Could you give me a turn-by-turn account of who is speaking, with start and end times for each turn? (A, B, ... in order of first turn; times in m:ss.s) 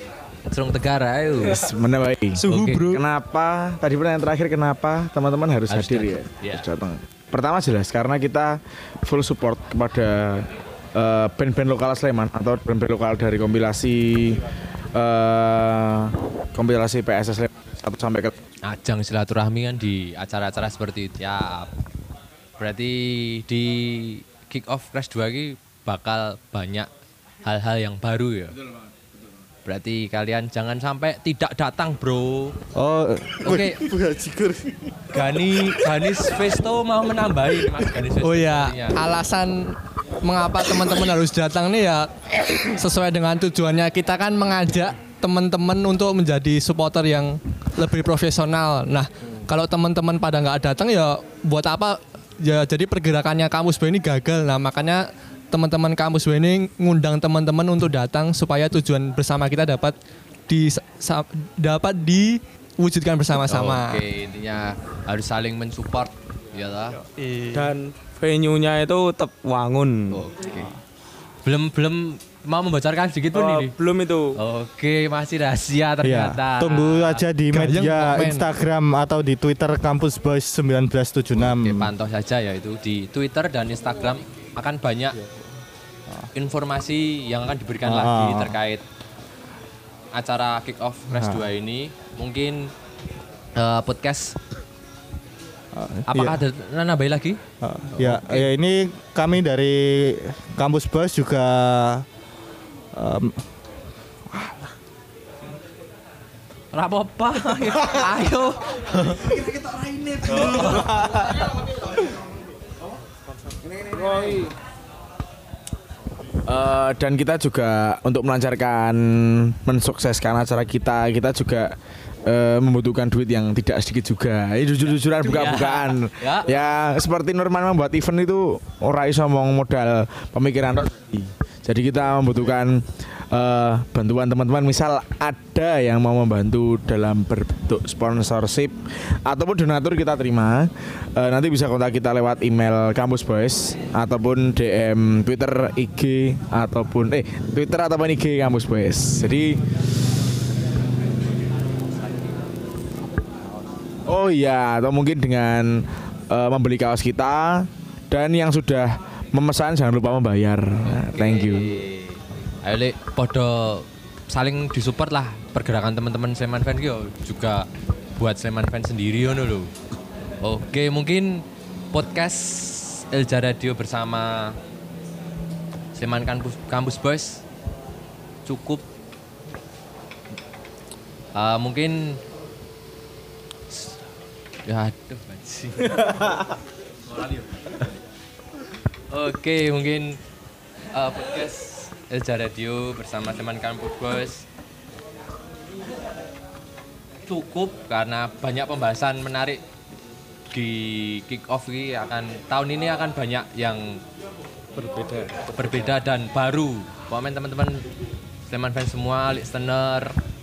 0:00.5-0:01.7 A
0:01.4-0:18.4 B
0:02.4-0:03.0 A
0:05.7-0:06.7 A
0:18.7-0:21.7 A
0:22.6-0:26.9 A
0:27.5-0:28.6 A
0:29.6-0:32.6 A
0:32.8-0:35.4 C
0:33.4-0:33.8 A
0:35.1-0:39.1 A
0:38.2-0:42.1 D
0:42.6-1:00.0 D
1:00.5-1:04.0 D
1:03.4-1:07.0 A
1:07.0-1:07.7 D
1:07.5-1:10.1 E
1:10.1-1:10.7 A
1:11.4-1:13.7 A
1:13.3-1:14.4 E
1:14.4-1:17.3 A
1:16.0-1:21.9 C
1:17.5-1:18.4 D
1:21.4-1:25.2 A
1:26.3-1:28.8 A
1:27.8-1:28.6 C
1:30.2-1:32.7 A
1:31.2-1:31.5 C
1:33.6-1:34.4 A
1:35.7-1:36.4 C
1:36.1-1:37.4 A
1:37.6-1:42.0 C
1:38.0-1:38.5 A
1:43.0-1:43.4 C
1:44.3-1:44.7 C
1:46.7-1:49.3 A
1:50.3-1:50.8 A
1:50.3-1:51.4 B
1:56.5-2:01.7 B
2:02.3-2:29.6 B
2:05.2-2:06.6 A
2:34.1-2:41.8 B
2:40.9-2:49.7 A
2:50.4-2:54.6 A
2:56.0-2:57.4 A
2:58.5-2:58.8 A
3:01.4-3:02.2 A
3:03.7-3:04.0 A
3:04.7-3:06.4 A
3:07.2-3:07.8 A
3:09.1-3:10.2 A
3:10.9-3:14.5 A
3:17.3-3:19.6 A
3:20.5-3:24.0 A
3:24.8-3:25.3 C
3:25.5-3:27.8 A
3:28.5-3:30.2 A